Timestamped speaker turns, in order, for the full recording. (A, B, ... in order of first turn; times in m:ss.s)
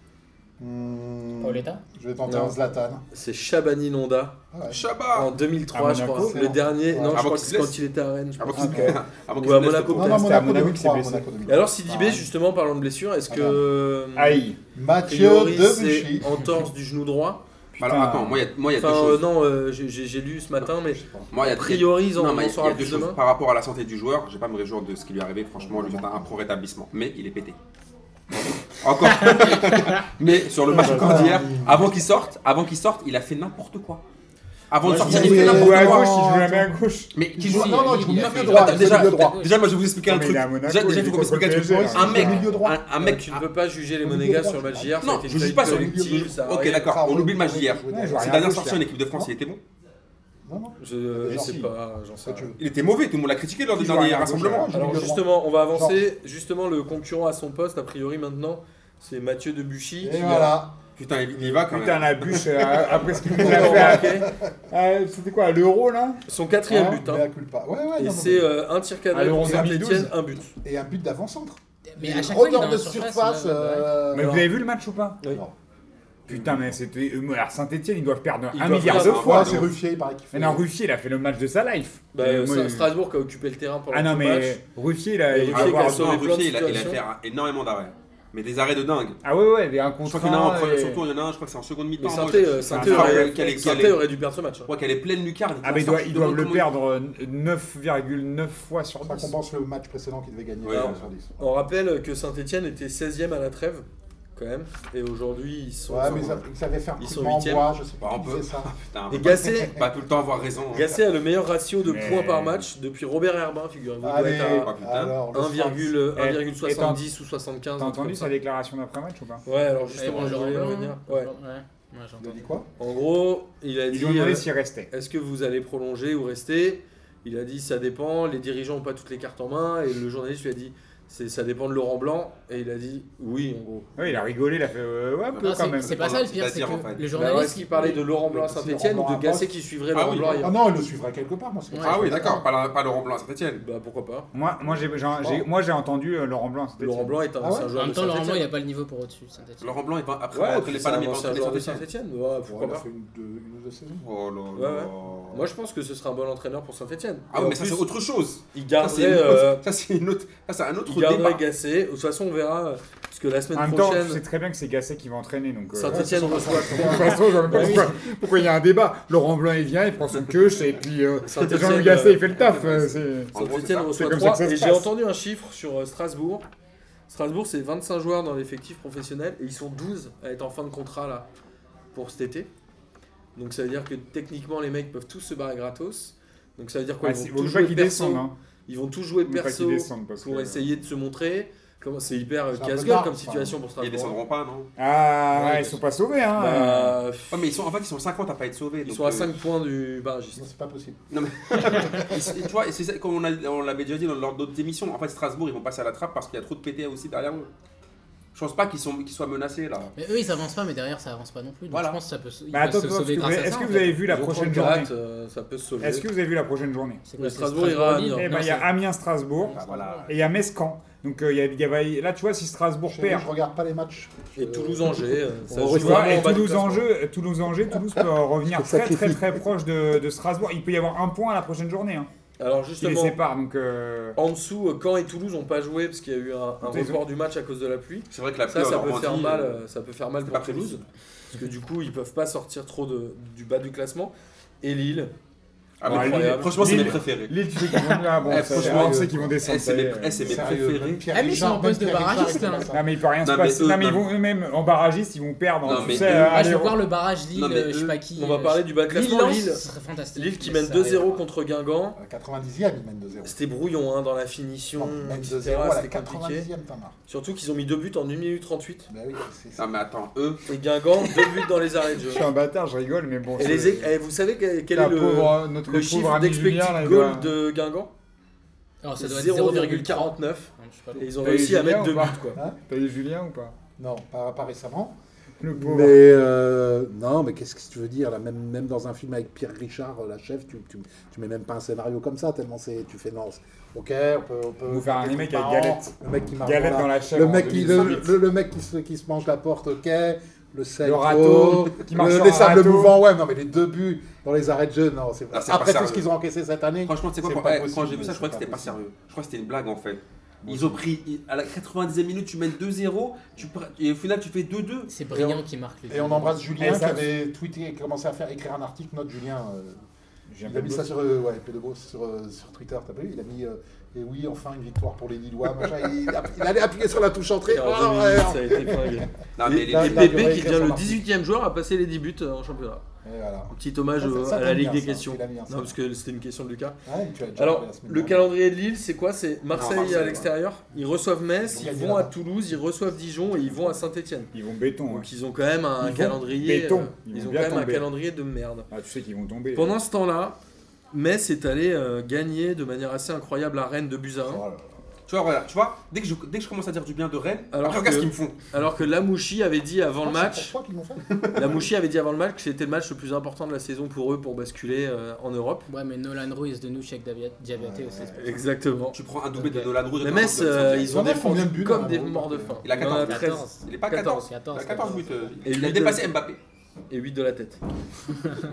0:00.6-0:03.0 A
0:01.4-0:01.8 B
0:02.2-0:02.6 C
0:03.1-0:04.4 C
0:04.5-0:04.8 A
0:04.7-0:05.3 D
0:05.1-0:10.3 C
0:05.7-0:06.6 E
0:06.2-0:07.2 A
0:07.0-0:07.8 D
0:08.4-0:10.2 D
0:08.6-0:09.0 E
0:08.6-0:08.9 A
0:09.9-0:12.3 A
0:10.0-0:11.2 E
0:11.5-0:14.5 C
0:13.3-0:13.6 A
0:14.2-0:14.6 E
0:14.8-0:16.5 A
0:15.0-0:17.4 C
0:17.8-0:18.4 E
0:17.8-0:19.2 D
0:18.8-0:23.2 C
0:20.9-0:21.3 A
0:21.3-0:27.6 D
0:25.6-0:26.3 A
0:28.8-0:34.0 D
0:30.7-0:32.0 A
0:30.7-0:31.4 E
0:34.7-0:36.1 D
0:34.8-0:36.8 A
0:34.8-0:35.6 C
0:34.9-0:37.1 E
0:37.1-0:43.4 D
0:37.4-0:39.4 A
0:37.4-0:39.6 B
0:40.1-0:42.4 E
0:41.5-0:43.2 A
0:43.0-0:46.9 C
0:44.0-0:48.4 A
0:45.0-0:49.6 D
0:47.9-0:48.8 E
0:50.5-0:51.7 A
0:50.8-0:52.6 C
0:51.3-0:51.7 E
0:52.2-0:52.6 A
0:52.6-0:54.8 D
0:53.8-0:54.7 E
0:54.0-0:56.0 A
0:54.7-1:00.6 C
1:00.0-1:00.8 A
1:01.0-1:03.4 D
1:01.4-1:06.2 E
1:03.2-1:04.5 A
1:03.3-1:04.3 C
1:06.3-1:07.3 C
1:06.7-1:08.5 A
1:08.0-1:10.5 C
1:09.1-1:10.1 E
1:09.4-1:09.7 A
1:10.6-1:14.5 A
1:11.9-1:13.9 B
1:14.1-1:15.2 E
1:14.2-1:14.4 C
1:16.3-1:19.7 E
1:16.3-1:16.6 C
1:18.5-1:19.6 C
1:18.8-1:19.7 D
1:19.0-1:20.6 A
1:20.3-1:22.9 E
1:22.1-1:24.6 C
1:23.9-1:26.2 E
1:25.3-1:27.0 C
1:25.5-1:29.2 D
1:29.2-1:31.0 E
1:30.0-1:34.0 D
1:32.0-1:34.7 C
1:32.7-1:34.0 E
1:34.7-1:36.7 D
1:35.6-1:39.4 E
1:39.0-1:41.5 A
1:40.6-1:41.0 D
1:40.7-1:46.4 C
1:45.9-1:49.8 A
1:47.0-1:47.7 C
1:48.0-1:51.0 D
1:49.1-1:49.8 C
1:50.7-1:54.7 C
1:51.8-1:52.7 E
1:54.0-1:56.0 A
1:54.6-1:55.2 D
1:55.3-1:58.3 C
1:56.2-1:57.0 E
1:57.8-1:59.4 E
1:59.4-2:01.3 C
2:00.0-2:02.4 B
2:02.2-2:02.7 A
2:02.8-2:14.1 C
2:03.9-2:04.9 E
2:14.0-2:16.0 E
2:15.3-2:17.0 D
2:15.4-2:18.0 B
2:17.1-2:20.6 C
2:17.8-2:19.6 A
2:19.9-2:20.4 D
2:20.3-2:22.5 A
2:21.7-2:22.2 B
2:21.8-2:23.6 D
2:23.6-2:24.3 C
2:24.3-2:27.2 E
2:24.7-2:25.4 A
2:26.8-2:28.5 C
2:27.4-2:27.7 A
2:27.8-2:29.7 B
2:29.6-2:31.9 D
2:30.3-2:32.8 C
2:32.5-2:34.1 A
2:34.0-2:35.5 D
2:34.6-2:37.9 C
2:37.3-2:41.4 D
2:38.5-2:39.6 C
2:40.9-2:44.2 C
2:43.5-2:53.4 E
2:45.7-2:47.9 C
2:45.9-2:47.9 A
2:51.2-2:52.8 C
2:52.4-2:54.1 D
2:53.3-2:56.5 C
2:53.9-2:54.9 E
2:57.1-3:01.3 C
3:01.9-3:02.5 C
3:03.4-3:14.2 C
3:07.0-3:08.3 E
3:09.2-3:10.7 E
3:12.5-3:13.6 A
3:13.8-3:14.7 D
3:14.8-3:17.0 E
3:15.3-3:15.8 C
3:16.4-3:17.5 C
3:17.3-3:19.4 D
3:18.8-3:20.4 C
3:20.4-3:22.3 A
3:21.1-3:27.5 D
3:28.3-3:29.9 D
3:30.0-3:34.0 B
3:31.7-3:32.0 D
3:32.5-3:34.9 E
3:34.1-3:36.1 C
3:35.8-3:37.0 E
3:37.1-3:38.7 B
3:37.2-3:38.6 C
3:38.1-3:43.3 E
3:39.4-3:40.1 B
3:39.5-3:40.1 D
3:42.9-3:46.4 A
3:44.4-3:46.8 C
3:45.8-3:52.1 E
3:48.5-3:49.4 A
3:52.4-3:53.2 C
3:52.8-3:54.2 E
3:54.2-4:05.1 C
3:56.6-3:57.0 E
3:58.1-3:59.6 D
4:00.2-4:00.8 D
4:05.8-4:11.1 D
4:05.8-4:07.0 C
4:05.8-4:10.4 E
4:08.2-4:09.4 A
4:10.2-4:12.8 A
4:11.1-4:12.7 B
4:12.7-4:16.8 E
4:13.2-4:14.1 D
4:15.6-4:16.6 D
4:15.8-4:16.1 A
4:16.0-4:21.2 B
4:17.3-4:18.0 D
4:18.2-4:22.0 C
4:22.0-4:23.4 A
4:23.2-4:26.5 C
4:24.8-4:27.0 A
4:27.1-4:28.9 C
4:28.9-4:29.7 A
4:29.6-4:30.4 D
4:30.5-4:32.3 C
4:32.0-4:33.9 E
4:33.4-4:37.9 C
4:34.7-4:37.3 E
4:38.8-4:41.1 B
4:39.0-4:42.4 C
4:41.2-4:43.6 E
4:43.8-4:45.0 A
4:45.4-4:46.0 E
4:45.5-5:08.8 A
4:54.7-4:58.2 E
5:00.8-5:03.0 E
5:05.3-5:06.1 D
5:06.8-5:14.9 D
5:10.4-5:10.8 A
5:14.9-5:16.5 B
5:15.9-5:19.8 A
5:16.6-5:17.1 E
5:20.3-5:20.9 E
5:20.5-5:31.0 A
5:27.5-5:32.8 C
5:29.4-5:30.4 D
5:33.0-5:35.8 A
5:33.5-5:36.8 C
5:36.9-5:38.3 A
5:37.4-5:44.3 C
5:39.5-5:40.3 D
5:39.6-5:40.2 A
5:41.4-5:42.2 A
5:43.4-5:43.8 A
5:44.3-5:45.1 E
5:44.9-5:48.7 C
5:45.8-5:47.9 E
5:48.7-5:49.7 E
5:49.5-5:50.4 C
5:50.9-5:54.4 C
5:54.2-5:54.6 A
5:55.1-5:58.4 D
5:57.5-6:00.5 C
6:00.0-6:01.6 A
6:01.3-6:05.7 C
6:05.7-6:08.3 B
6:07.5-6:08.2 A
6:08.1-6:09.0 C
6:08.9-6:11.2 D
6:10.0-6:14.3 C
6:10.7-6:12.8 A
6:12.6-6:16.4 D
6:12.8-6:15.3 B
6:15.4-6:16.1 C
6:16.9-6:17.6 C